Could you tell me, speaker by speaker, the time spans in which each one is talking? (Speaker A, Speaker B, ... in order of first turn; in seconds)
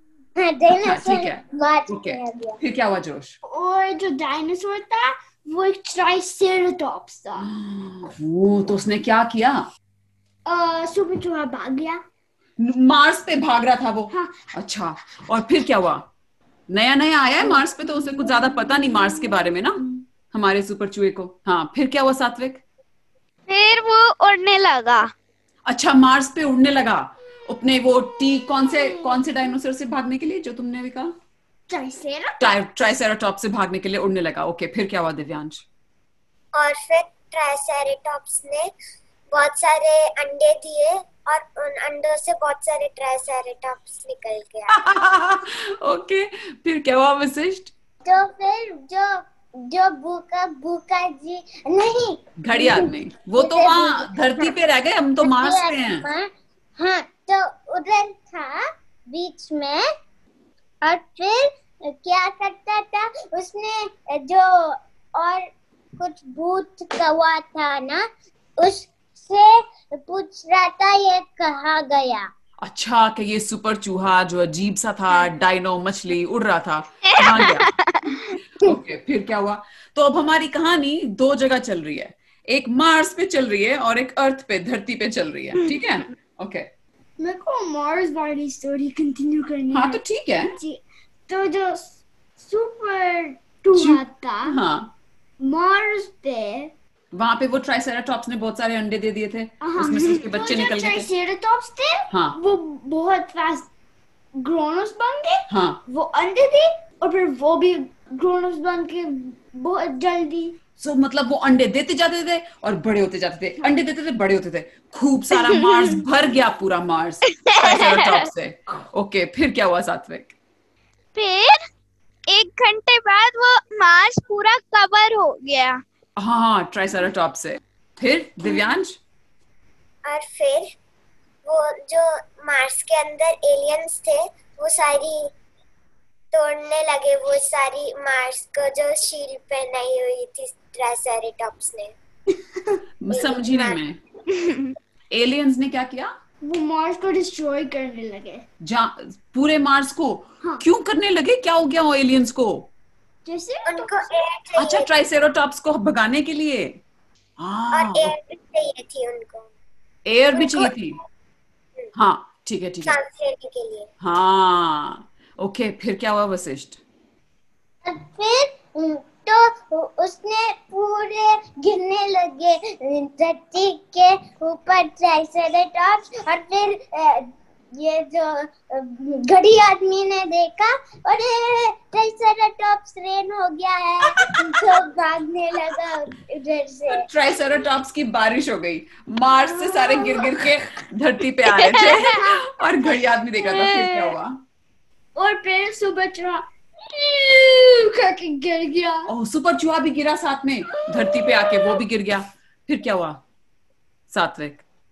Speaker A: 0.4-2.6, 48.0-54.5, 55.2-59.8, 60.8-68.0, 68.6-72.3, 167.8-187.1
Speaker B: 0.7-3.4, 7.4-9.7, 12.6-16.0, 16.7-22.6, 25.7-31.1, 32.4-35.6, 44.7-47.7, 52.4-56.1, 72.6-77.7, 78.6-86.7, 89.7-90.6, 93.7-94.9, 97.1-101.1, 102.1-102.4, 105.5-105.8, 110.8-120.3, 126.2-129.0, 143.0-144.0, 145.1-146.1, 148.6-152.7, 154.6-156.8, 157.4-158.1, 160.1-161.0, 161.9-163.0, 164.0-166.8, 186.9-194.4, 199.1-203.2, 204.1-204.6
Speaker C: 3.5-7.5, 10.5-12.0, 14.1-14.4, 31.7-32.6, 87.2-90.0, 90.6-94.6, 95.4-96.7, 99.6-103.7, 104.4-110.6, 142.3-142.8, 146.4-148.5, 153.2-154.1, 189.5-190.3, 195.2-199.1, 201.0-201.8
Speaker D: 23.5-25.1, 77.0-78.2, 117.5-118.3, 121.2-121.6, 122.3-125.8, 144.4-144.7, 191.6-192.1, 193.5-194.2
Speaker E: 36.5-38.7, 39.3-44.8, 130.1-130.7, 131.4-135.3, 136.3-141.9, 143.1-143.8, 153.7-154.9, 157.7-159.5, 160.3-160.7, 162.8-163.9